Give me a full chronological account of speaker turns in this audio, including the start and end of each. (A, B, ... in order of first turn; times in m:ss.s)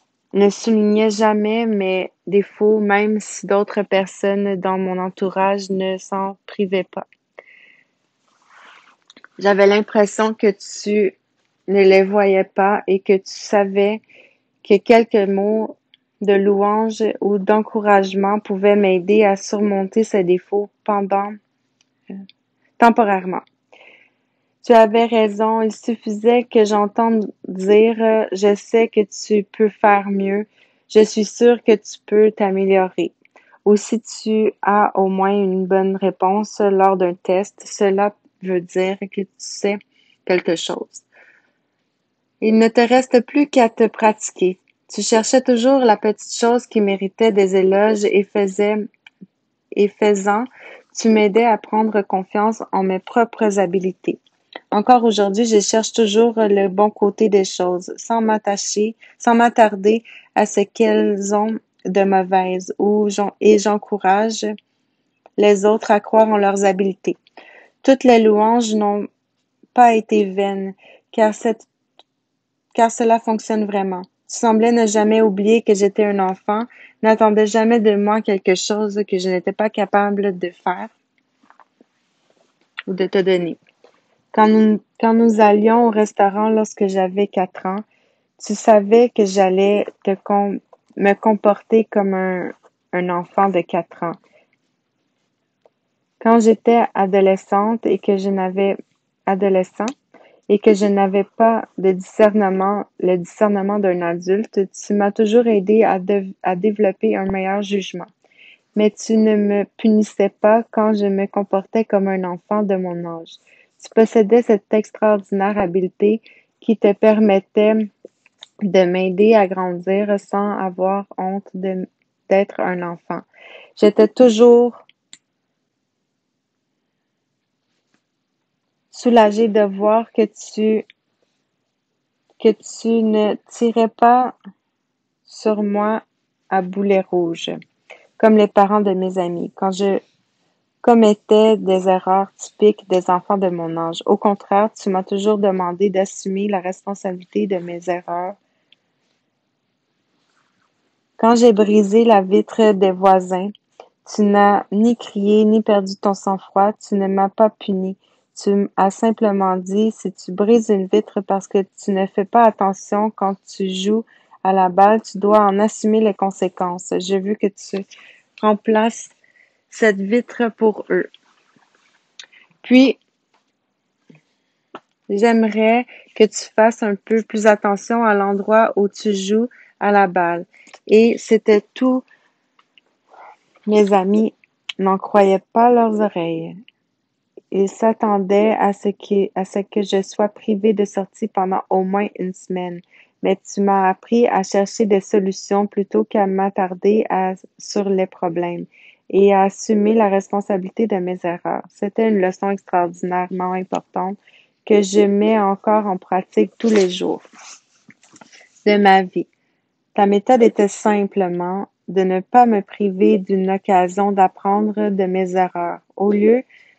0:00.3-0:07.1 A
0:09.4-0:11.2 A
0:11.7-0:14.0 A
0:14.6-0:21.4 A
0:22.8-0:23.4 A
0:24.6-0:33.1 A
0:33.7-0:41.0 A
0:42.4-0:48.9 A
0:49.8-0:54.2 A
0:54.7-1:04.5 A
1:05.4-1:07.2 A
1:07.8-1:09.1 A
1:09.7-1:11.7 A
1:12.8-1:20.9 A
1:22.9-1:23.6 A
1:24.3-1:27.8 A
1:28.4-1:34.2 A
1:36.2-1:39.9 A
1:40.5-1:48.1 A
1:48.8-1:57.9 A
1:58.6-2:03.3 A
2:03.8-2:04.8 A
2:08.9-2:10.8 A
2:12.4-2:14.4 A
2:15.3-2:17.6 A
2:18.2-2:20.0 A
2:20.8-2:28.4 A
2:31.2-2:33.5 A
2:34.0-2:47.8 A
2:48.4-2:49.1 A
2:49.7-2:51.1 A
2:52.6-2:53.0 A
2:55.1-3:02.0 A
3:03.7-3:06.6 A
3:07.5-3:27.2 A
3:28.6-3:29.3 A
3:30.0-3:36.4 A